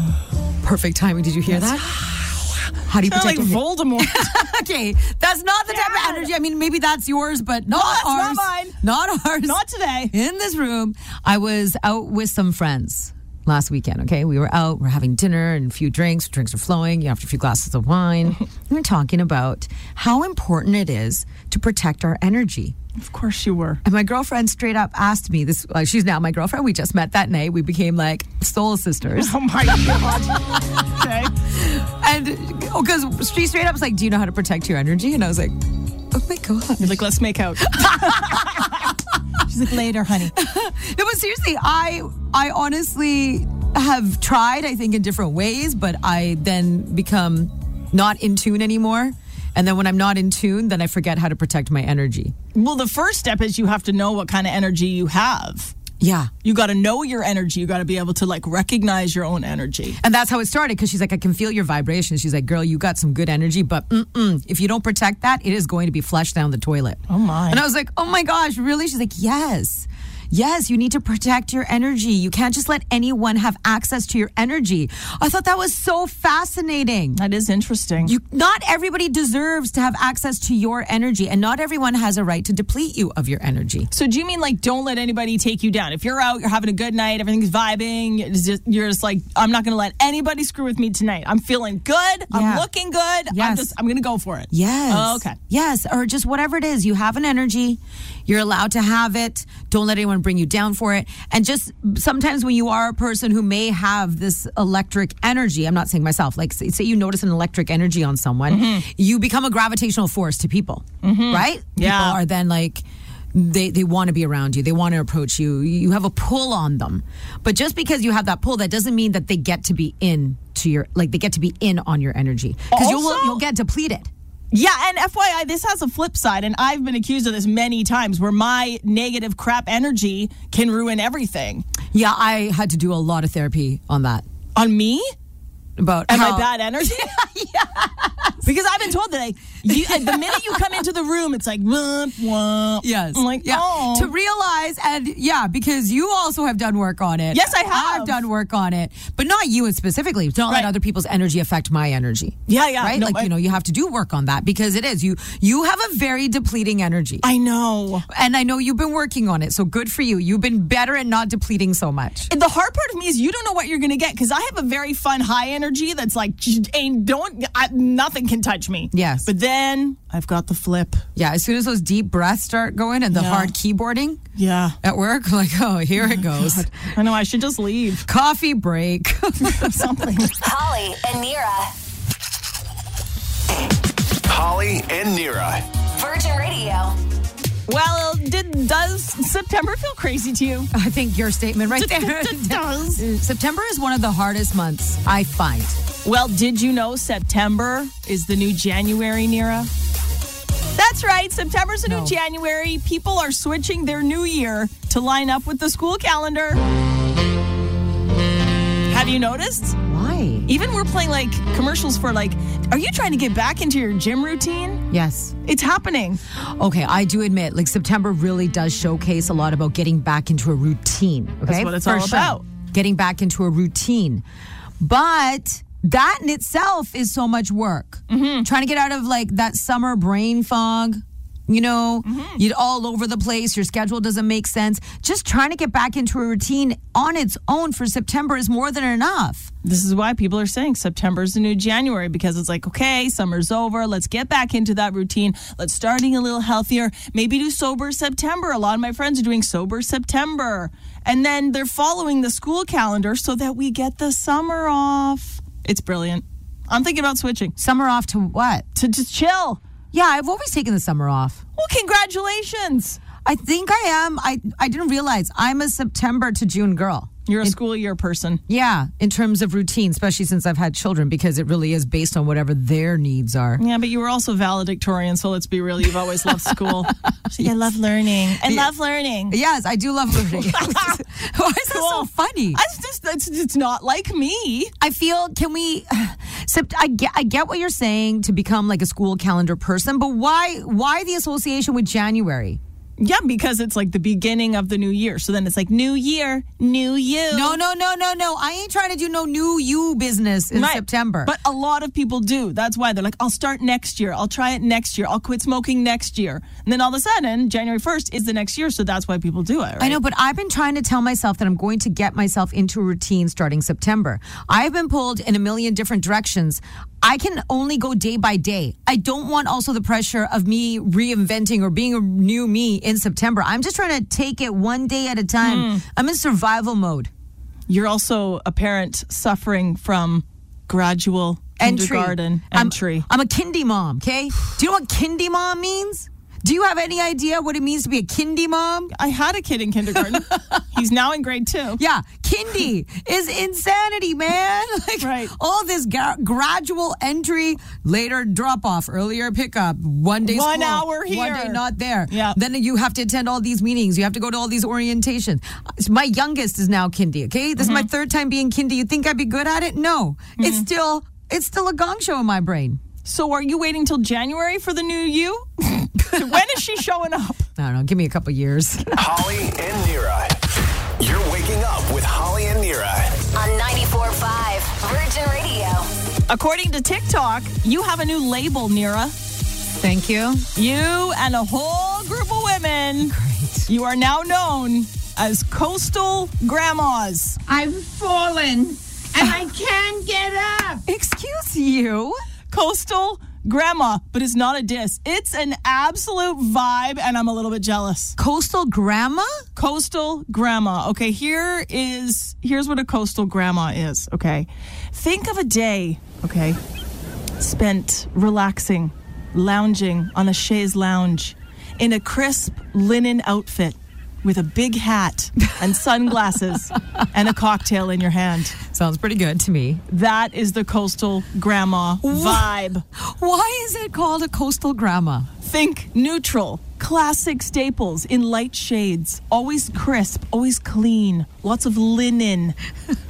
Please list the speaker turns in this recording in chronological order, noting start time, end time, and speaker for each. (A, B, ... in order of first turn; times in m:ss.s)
0:00.6-0:02.1 A
0:01.5-0:01.7 B
0:02.9-0:09.6 A
0:03.0-0:04.4 B
0:05.7-0:06.3 B
0:07.7-0:08.8 B
0:09.4-0:10.1 B
0:10.1-0:22.7 A
0:23.0-0:23.8 B
0:23.8-0:29.3 A
0:29.1-0:31.3 B
0:31.5-0:37.0 A
0:36.8-0:40.4 B
0:37.6-0:38.6 A
0:40.3-0:52.3 A
0:52.5-0:55.7 B
0:56.0-0:56.3 A
0:56.4-1:00.0 B
1:00.0-1:17.2 A
1:07.1-1:07.6 B
1:17.1-1:18.1 B
1:18.0-1:23.9 A
1:23.9-1:35.4 B
1:32.3-1:32.7 A
1:33.3-1:33.7 A
1:34.5-2:04.1 A
1:48.5-1:48.8 B
1:51.0-1:52.2 B
2:02.7-2:03.4 B
2:04.5-2:11.6 B
2:11.9-2:14.2 A
2:14.6-2:15.1 B
2:15.8-2:18.4 A
2:16.1-2:17.2 B
2:18.4-2:24.1 B
2:19.6-2:20.8 A
2:22.8-2:37.3 A
2:27.3-2:28.2 B
2:32.5-2:33.3 B
2:37.2-2:38.0 B
2:38.1-2:42.3 A
2:42.3-2:51.0 B
2:48.9-2:49.3 A
2:51.1-2:54.2 A
2:53.1-2:53.5 B
2:54.4-2:54.8 B
2:54.8-2:56.7 A
2:56.1-2:58.0 B
2:58.0-2:59.8 A
2:59.4-3:00.4 B
3:00.4-3:01.7 C
3:04.3-3:05.6 D
3:05.9-3:07.0 C
3:07.7-3:10.7 B
3:10.7-3:15.8 A
3:11.7-3:13.0 B
3:16.0-3:19.7 B
3:20.8-3:26.6 B
3:21.8-3:22.1 A
3:28.9-3:29.8 B
3:29.8-3:30.5 A
3:30.5-3:34.8 B
3:34.9-3:35.4 A
3:35.4-3:36.2 B
3:36.6-3:44.2 A
3:41.4-3:42.4 B
3:44.8-3:59.5 A
3:48.1-3:48.5 B
3:52.0-3:52.4 B
3:59.6-4:17.5 B
4:17.6-4:18.6 A
4:18.7-4:19.6 B
4:19.9-4:21.4 A
4:21.6-4:23.0 B
4:23.2-4:27.6 A
4:27.3-4:28.4 B
4:28.5-4:33.6 A
4:33.6-4:39.4 B
4:36.5-4:37.5 A
4:38.4-4:38.7 A
4:39.3-4:42.6 A
4:40.3-4:41.0 B
4:41.7-4:44.7 B
4:44.8-4:52.6 A
4:53.0-4:57.6 B
4:57.3-5:01.3 A
5:00.5-5:10.0 B
5:09.8-5:27.1 A
5:25.4-5:25.8 B
5:27.7-5:33.0 B
5:31.6-5:38.9 A
5:38.9-5:41.8 B
5:40.0-5:40.6 A
5:41.8-6:02.8 A
5:45.0-5:45.3 B
5:50.2-5:52.4 B
5:57.6-5:57.9 B
6:00.4-6:00.6 B
6:03.0-6:07.4 B
6:07.6-6:09.0 A
6:09.0-6:10.4 D
6:11.0-6:13.2 D
6:13.3-6:15.9 C
6:16.3-6:19.1 B
6:19.8-6:20.5 A
6:20.5-6:23.2 B
6:23.1-6:23.7 A
6:23.7-6:27.4 B
6:27.5-6:30.8 E
6:30.8-6:32.2 A
6:32.5-6:38.2 B
6:38.2-6:39.4 A
6:39.6-6:46.6 B
6:47.4-6:58.6 B
6:58.6-6:59.8 A
6:59.9-7:02.8 B
7:02.0-7:05.3 A
7:05.4-7:12.6 B